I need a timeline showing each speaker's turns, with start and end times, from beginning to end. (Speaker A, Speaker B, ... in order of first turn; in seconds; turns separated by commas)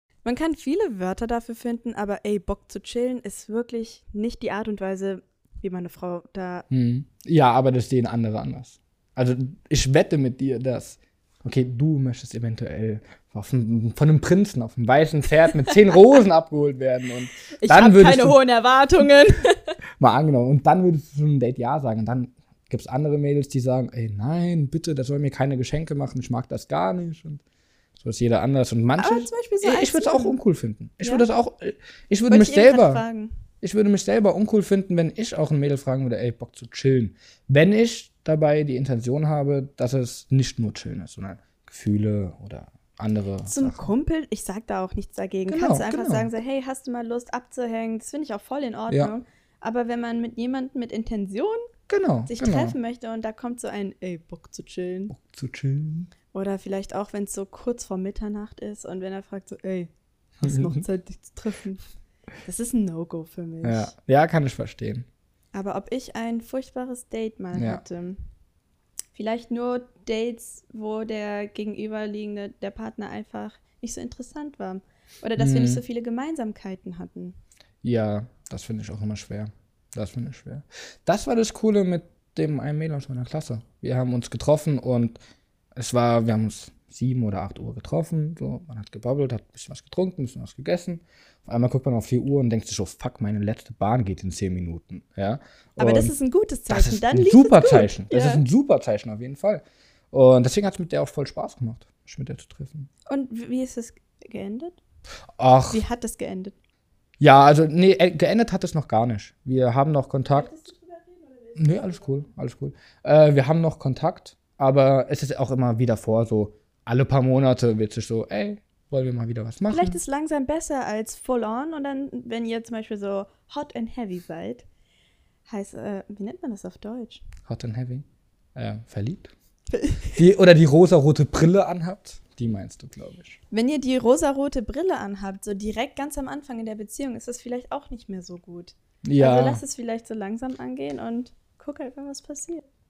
Speaker A: 0.2-6.7, Speaker B: 6.7-18.4, Speaker A: 17.6-19.8, Speaker B: 20.0-27.4, Speaker B: 28.0-33.0, Speaker A: 29.0-30.4, Speaker A: 31.0-31.3, Speaker A: 32.3-33.3, Speaker B: 33.6-43.9, Speaker A: 43.5-51.7, Speaker B: 45.5-46.3, Speaker B: 51.9-52.8, Speaker A: 52.3-55.1, Speaker B: 55.1-56.1, Speaker A: 56.3-59.9, Speaker A: 60.4-61.8, Speaker B: 60.4-60.8, Speaker A: 62.5-63.9, Speaker B: 63.6-65.1, Speaker A: 65.5-68.2, Speaker B: 67.5-67.8, Speaker A: 69.1-77.4, Speaker B: 75.4-75.8, Speaker B: 77.8-85.2, Speaker B: 85.8-96.1, Speaker A: 95.8-98.5, Speaker B: 96.7-102.9, Speaker A: 103.1-104.8, Speaker B: 105.4-105.8, Speaker A: 105.7-106.5, Speaker B: 107.2-110.5, Speaker A: 110.3-112.2, Speaker B: 111.6-120.0, Speaker A: 119.7-124.7, Speaker A: 125.5-127.2, Speaker B: 127.5-129.3, Speaker A: 129.7-130.2, Speaker B: 130.2-133.4, Speaker A: 133.5-142.7, Speaker B: 139.0-139.6